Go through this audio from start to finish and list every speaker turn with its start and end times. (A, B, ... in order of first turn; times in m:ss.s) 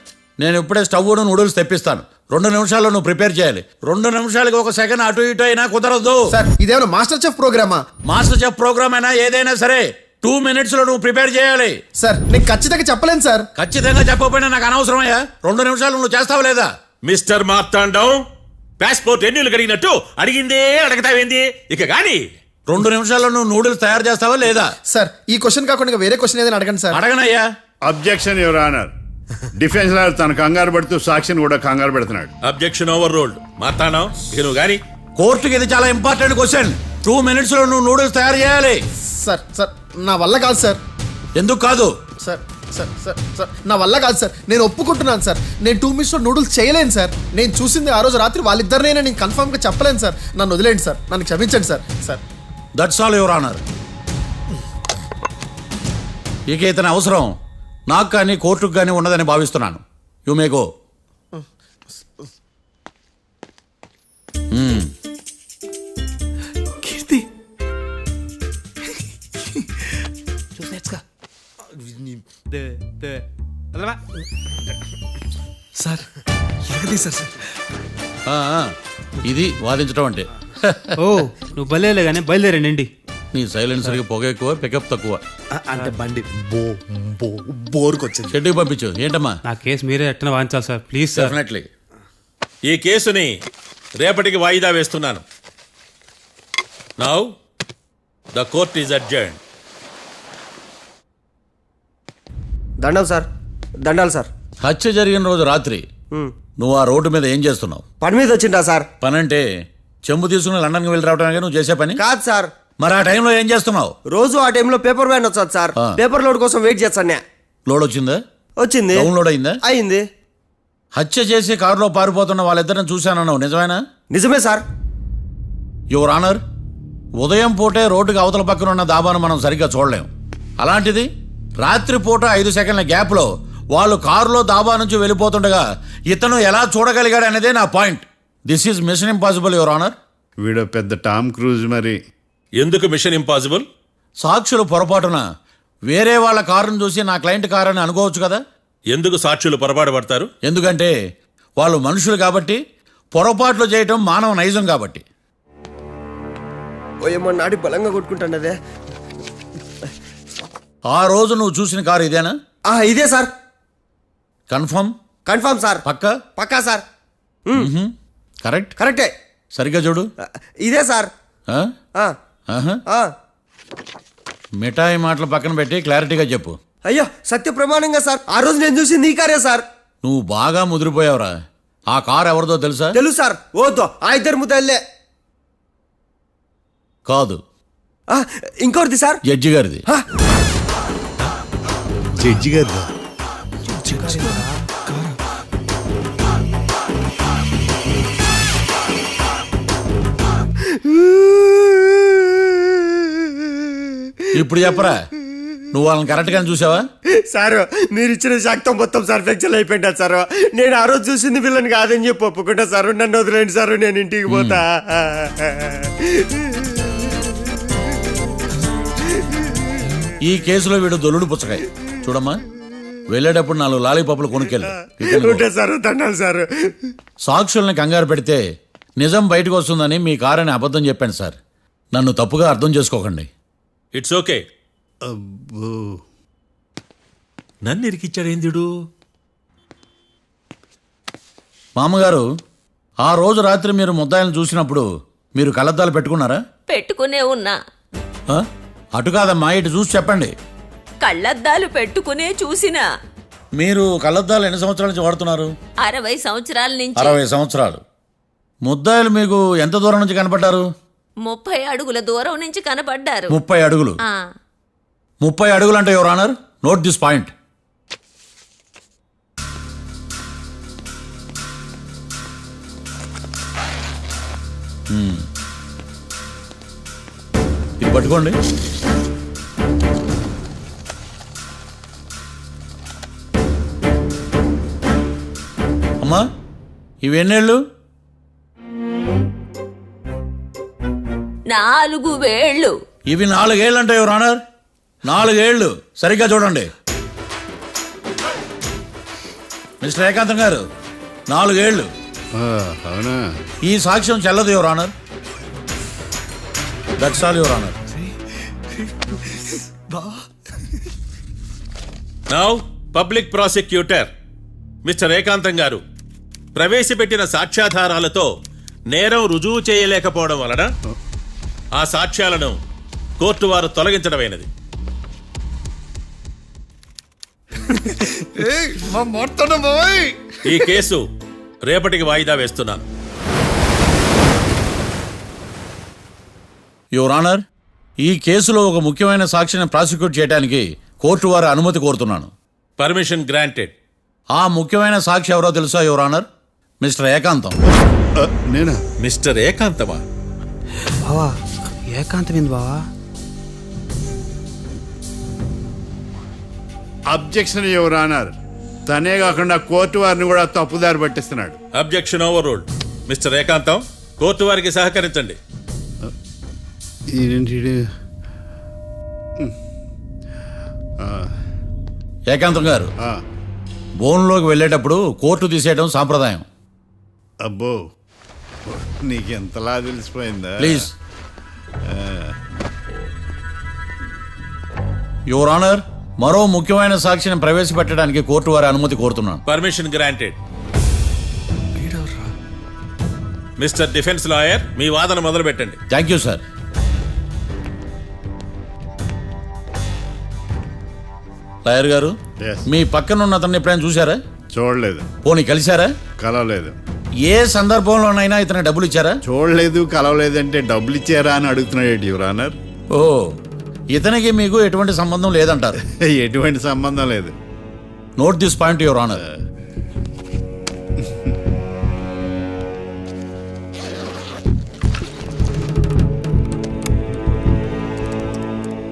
0:00.4-0:06.2 A
0:06.3-0:07.8 B
0:08.0-0:11.8 A
0:12.0-0:13.5 B
0:13.6-0:16.7 A
0:17.1-0:18.2 C
0:18.8-0:22.2 C
0:22.7-0:24.7 A
0:24.9-0:27.0 B
0:26.9-0:27.5 A
0:27.8-0:28.9 D
0:29.5-0:32.3 D
0:32.4-0:34.8 C
0:35.2-0:38.8 A
0:39.0-0:40.8 B
0:41.4-0:41.9 A
0:42.2-0:52.2 B
0:52.8-0:53.6 A
0:56.5-0:57.3 A
0:57.9-1:00.6 A
1:04.5-1:04.9 A
1:06.9-1:07.2 E
1:10.6-1:11.0 E
1:11.7-1:12.2 F
1:12.5-1:13.2 E
1:18.3-1:20.9 A
1:21.0-1:22.9 E
1:23.3-1:25.2 A
1:25.5-1:28.4 F
1:28.3-1:29.4 A
1:29.5-1:31.4 E
1:31.1-1:31.7 A
1:32.7-1:33.3 C
1:34.0-1:35.2 C
1:37.0-1:37.3 C
1:38.3-1:39.4 C
1:42.8-1:43.3 G
1:43.8-1:44.3 G
1:44.6-1:45.8 A
1:46.6-1:47.8 A
1:48.0-1:48.9 G
1:49.0-1:49.4 A
1:50.0-1:52.0 A
1:52.0-1:52.5 G
1:52.8-1:53.9 A
1:54.1-1:57.2 G
1:57.7-1:58.2 A
1:58.6-1:59.1 G
1:58.9-1:59.6 A
1:59.6-2:00.0 G
2:01.0-2:03.8 A
2:04.1-2:04.6 G
2:05.9-2:06.4 A
2:07.2-2:10.1 A
2:10.6-2:11.1 A
2:11.6-2:20.0 A
2:20.4-2:22.0 D
2:22.6-2:23.6 C
2:24.2-2:25.2 A
2:25.9-2:28.4 A
2:28.9-2:30.3 C
2:30.4-2:30.9 A
2:31.6-2:32.6 A
2:33.1-2:35.0 A
2:37.0-2:38.5 G
2:40.9-2:42.4 A
2:42.7-2:43.3 G
2:44.5-2:44.9 A
2:45.3-2:45.8 G
2:45.8-2:46.2 A
2:46.4-2:46.8 G
2:47.5-2:48.7 A
2:48.8-2:49.1 G
2:49.5-2:50.1 A
2:50.2-2:51.1 G
2:52.5-2:52.8 A
2:52.9-2:53.1 G
2:54.6-2:56.6 A
2:56.8-2:59.6 G
3:00.0-3:01.3 A
3:01.9-3:03.0 A
3:02.9-3:04.8 G
3:07.1-3:07.4 A
3:08.1-3:09.2 G
3:09.3-3:09.8 A
3:12.2-3:12.9 D
3:13.7-3:14.6 E
3:20.6-3:24.8 G
3:24.3-3:25.0 A
3:25.7-3:26.8 A
3:27.3-3:37.9 G
3:34.3-3:34.6 A
3:40.2-3:42.4 A
3:43.1-3:45.4 A
3:44.5-3:46.7 G
3:47.2-3:48.4 A
3:49.0-3:51.4 A
3:51.9-3:53.3 A
3:53.9-3:54.4 C
3:55.0-3:56.0 D
3:57.6-3:58.6 C
4:01.8-4:02.2 A
4:03.0-4:06.4 A
4:06.7-4:07.6 H
4:08.3-4:10.3 A
4:11.0-4:12.8 H
4:13.6-4:15.5 A
4:15.8-4:17.2 H
4:17.0-4:17.8 A
4:18.6-4:20.6 A
4:21.2-4:23.4 H
4:23.3-4:24.0 A
4:25.2-4:27.3 A
4:34.9-4:35.2 A
4:37.8-4:38.4 A
4:47.0-4:47.6 A
4:51.5-4:52.7 H
4:53.1-4:54.4 A
4:55.0-4:56.7 A
4:59.8-5:00.6 A
5:01.3-5:01.9 A
5:02.3-5:03.2 D
5:03.6-5:04.9 A
5:07.0-5:07.8 A
5:12.3-5:14.1 C
5:14.8-5:15.8 C
5:16.5-5:18.3 C
5:18.9-5:20.7 C
5:21.8-5:22.6 C
5:23.2-5:24.5 C
5:30.4-5:31.0 C
5:31.6-5:32.8 C
5:36.9-5:37.4 A
5:38.0-5:42.3 A
5:42.8-5:43.7 C
5:44.3-5:46.2 A
5:46.8-5:47.6 A
5:48.2-5:48.8 D
5:49.0-5:50.0 C
5:51.0-5:52.8 E
5:57.1-5:58.3 D
5:58.9-6:01.6 D
6:01.8-6:05.4 C
6:07.1-6:07.8 D
6:11.0-6:11.3 D
6:12.3-6:12.9 A
6:14.0-6:16.4 A
6:17.4-6:17.8 D
6:18.7-6:20.8 D
6:20.6-6:20.9 A
6:21.8-6:22.3 D
6:25.3-6:29.4 A
6:29.5-6:30.4 C
6:33.6-6:35.8 C
6:35.9-6:36.4 A
6:41.6-6:42.1 A
6:42.4-6:42.7 D
6:42.7-6:44.2 A
6:44.5-6:45.0 D
6:45.2-6:45.9 A
6:46.2-6:46.8 D
6:47.2-6:49.2 A
6:49.2-6:52.5 D
6:52.9-6:53.4 A
6:53.9-6:55.8 A
6:55.9-6:57.3 D
6:58.2-6:59.2 A
7:01.0-7:01.3 D